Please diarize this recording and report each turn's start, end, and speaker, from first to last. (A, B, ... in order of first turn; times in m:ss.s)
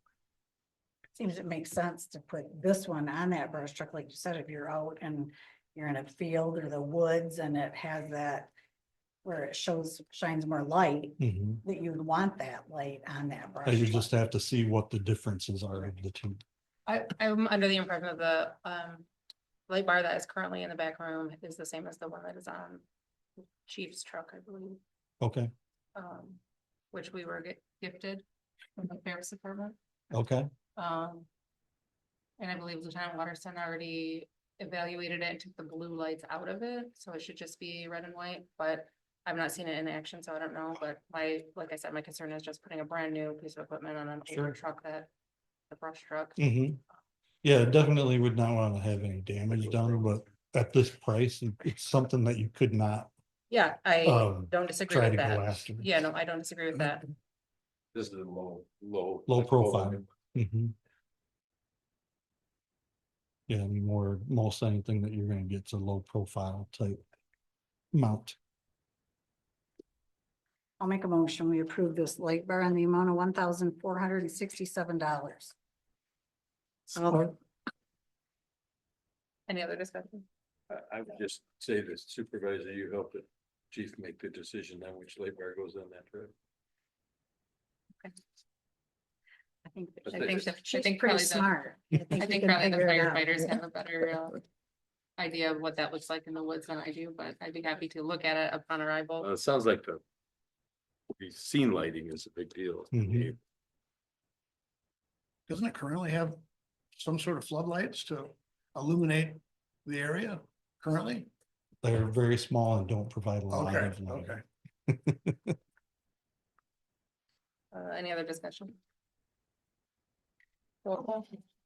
0:01.2-0:08.5 A
0:09.2-0:14.1 A
0:11.2-0:11.6 B
0:13.7-0:16.4 B
0:16.9-0:19.1 C
0:19.7-0:22.8 C
0:23.6-0:24.8 C
0:25.2-0:25.5 B
0:26.0-0:26.4 C
0:26.9-0:28.2 C
0:28.8-0:29.8 C
0:30.1-0:30.5 B
0:30.8-0:31.3 C
0:32.4-0:45.1 C
0:45.7-0:46.5 C
0:46.4-0:46.8 B
0:47.4-0:53.1 B
0:53.5-0:57.1 C
0:54.0-0:55.9 B
0:57.9-1:00.1 D
0:59.3-1:00.7 B
1:03.5-1:07.0 B
1:07.9-1:08.4 B
1:10.8-1:15.5 A
1:19.5-1:20.3 C
1:20.7-1:26.3 D
1:29.7-1:33.4 A
1:30.1-1:31.5 C
1:32.2-1:34.4 C
1:35.2-1:39.3 C
1:39.2-1:40.0 D
1:41.1-1:43.4 D
1:42.9-1:43.3 B
1:45.5-1:46.4 E
1:46.9-1:51.3 E
1:51.8-1:55.5 B
1:53.5-1:54.4 E
1:57.7-1:58.8 C
2:00.8-2:01.4 C